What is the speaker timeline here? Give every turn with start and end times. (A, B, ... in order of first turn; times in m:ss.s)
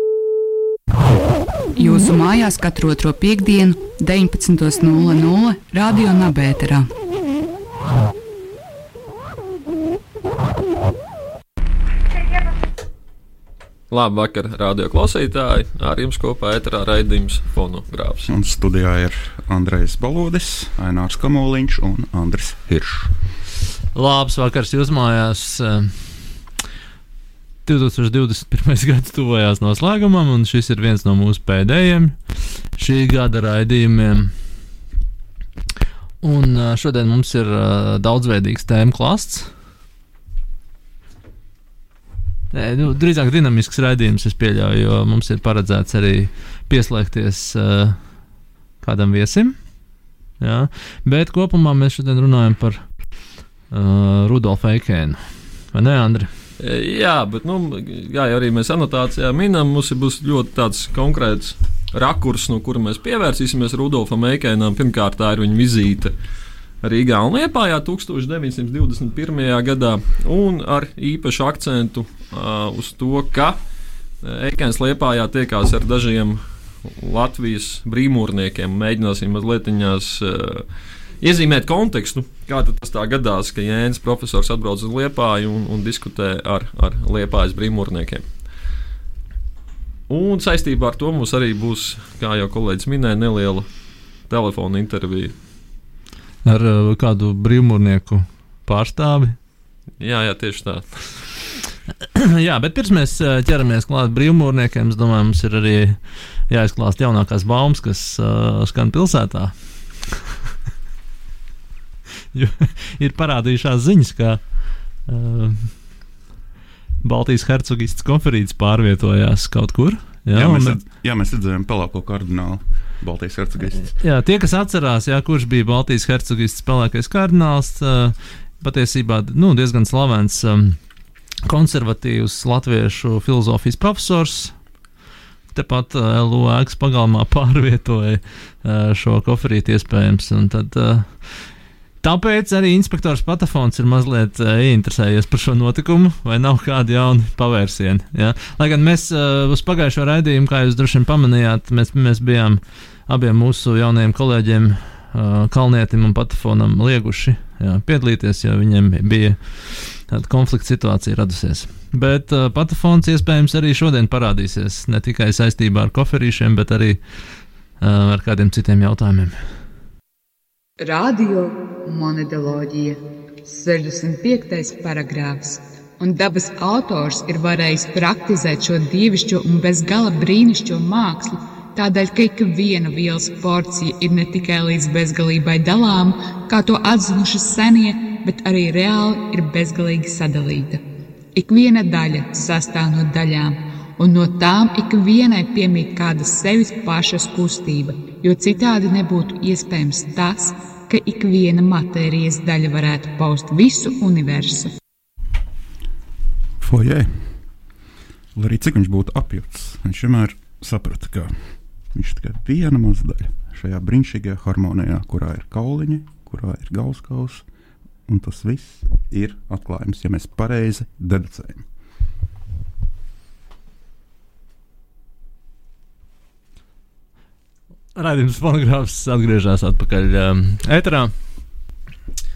0:01.8-0:03.1 A
0:03.0-0:04.8 B
0:03.7-0:04.6 A
0:05.4-0:06.0 B
0:13.9-0:18.3 C
0:18.3-0:23.2 D
0:23.9-0:26.4 E
0:27.6-0:34.4 E
0:36.2-0:39.5 E
0:42.5-0:49.7 E
0:50.4-0:56.3 E
0:56.6-1:06.1 C
1:06.8-1:13.6 C
1:14.2-1:20.7 C
1:21.2-1:28.2 C
1:30.1-1:33.7 C
1:34.2-1:35.3 C
1:36.4-1:39.4 E
1:40.0-1:41.3 C
1:42.2-1:49.9 E
1:52.3-1:56.0 E
1:57.0-2:00.8 E
2:00.3-2:04.0 D
2:03.9-2:10.8 E
2:11.4-2:14.6 E
2:15.5-2:47.0 E
2:47.8-2:49.4 E
2:50.8-3:10.8 A
3:11.4-3:24.7 A
3:26.6-3:27.5 D
3:28.4-3:37.5 D
3:38.1-3:41.7 D
3:48.0-3:51.1 E